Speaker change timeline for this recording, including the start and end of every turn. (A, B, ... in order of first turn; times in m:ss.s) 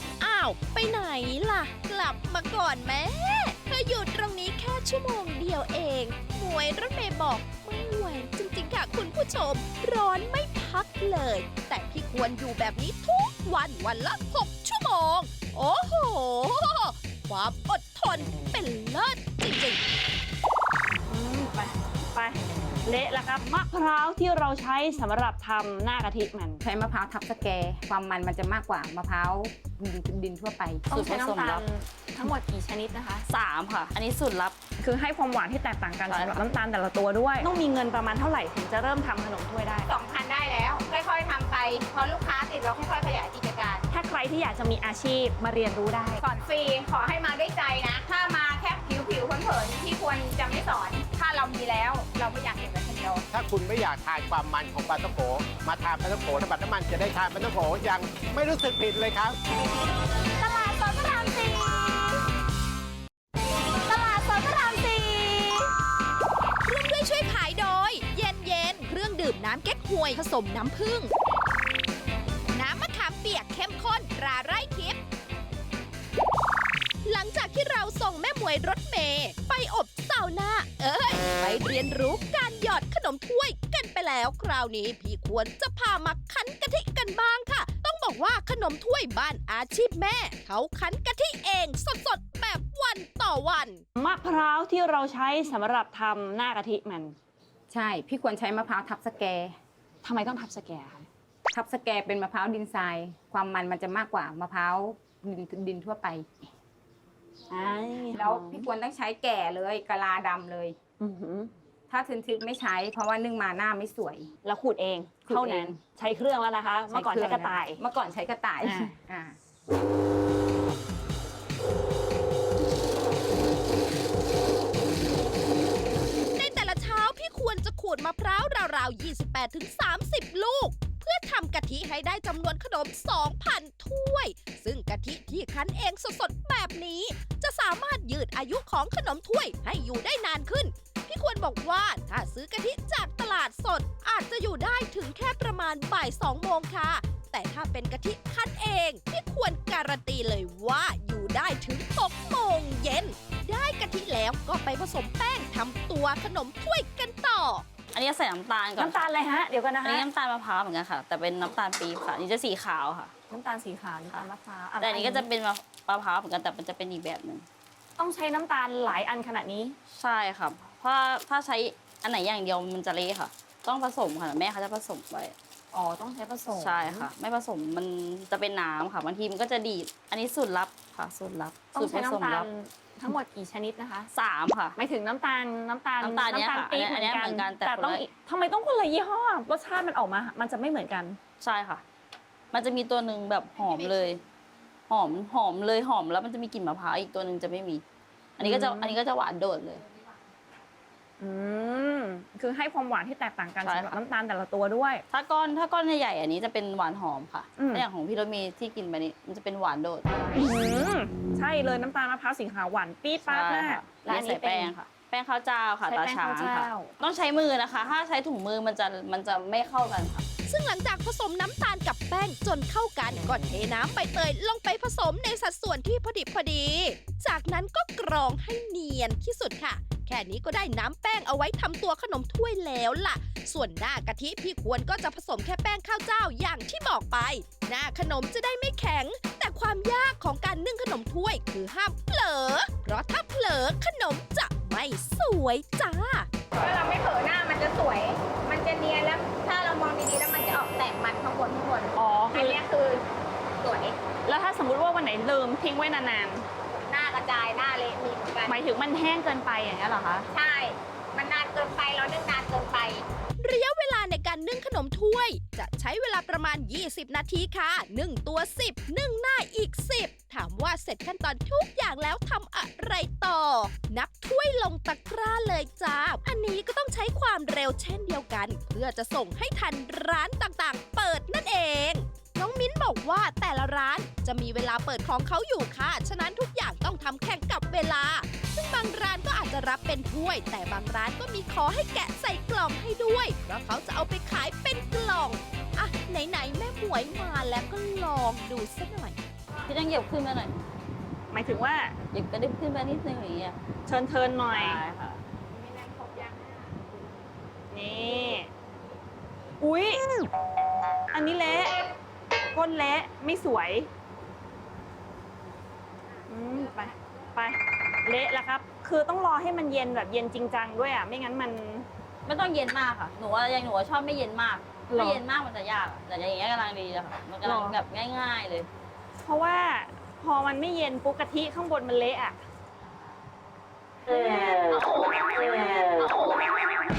0:00.2-0:19.8 A
0:21.1-0:26.6 B
0:26.6-0:30.8 C
0:30.9-0:33.2 B
0:30.9-0:31.6 D
0:33.3-0:34.6 D
0:34.8-0:39.9 B
0:36.1-0:36.4 D
0:39.9-0:43.9 C
0:43.9-0:46.2 B
0:46.2-0:53.2 C
0:53.3-0:59.4 E
1:00.4-1:02.1 C
1:03.9-1:05.6 C
1:06.6-1:11.1 A
1:12.5-1:15.0 A
1:17.0-1:33.8 A
1:34.0-1:37.2 B
1:37.7-1:39.6 C
1:40.0-1:41.1 B
1:41.5-1:46.3 C
1:47.5-1:48.7 B
1:48.1-1:50.8 C
1:51.0-1:51.5 B
1:51.9-1:54.3 C
1:54.4-1:57.8 B
1:55.3-1:55.8 C
1:56.9-1:59.4 C
1:58.6-1:58.9 B
2:06.3-2:37.6 A
2:37.9-2:39.1 D
2:38.8-2:40.0 B
2:39.8-2:43.1 D
2:43.3-2:45.3 B
2:44.8-2:47.4 D
2:48.0-2:49.8 B
2:49.9-2:55.3 D
2:55.7-2:57.1 B
2:56.5-3:02.5 D
3:01.7-3:04.1 B
3:04.1-3:04.8 D
3:04.8-3:11.2 B
3:06.0-3:08.0 D
3:11.4-3:11.8 D
3:12.5-3:14.2 D
3:14.9-3:17.8 D
3:18.4-3:19.8 D
3:18.4-3:19.0 B
3:21.2-3:25.0 B
3:23.6-3:24.0 D
3:25.1-3:30.1 D
3:27.6-3:27.8 B
3:30.3-3:34.7 B
3:33.3-3:40.2 D
3:35.9-3:36.9 B
3:40.5-4:06.3 A
4:06.5-4:13.0 C
4:12.0-4:12.6 B
4:13.6-4:14.0 C
4:14.2-4:16.5 B
4:16.7-4:18.6 C
4:18.5-4:20.3 B
4:20.3-4:23.0 C
4:23.4-4:59.2 A
4:59.6-5:00.6 D
5:01.3-5:01.9 B
5:02.1-5:03.6 D
5:03.9-5:04.8 B
5:04.5-5:05.2 D
5:05.5-5:06.7 C
5:07.7-5:08.5 B
5:09.6-5:10.0 B
5:11.1-5:11.9 B
5:12.5-5:13.9 B
5:16.3-5:21.9 B
5:22.2-5:28.7 D
5:24.9-5:25.2 B
5:27.4-5:27.8 B
5:29.2-5:32.4 B
5:34.1-5:34.7 B
5:35.4-5:35.9 B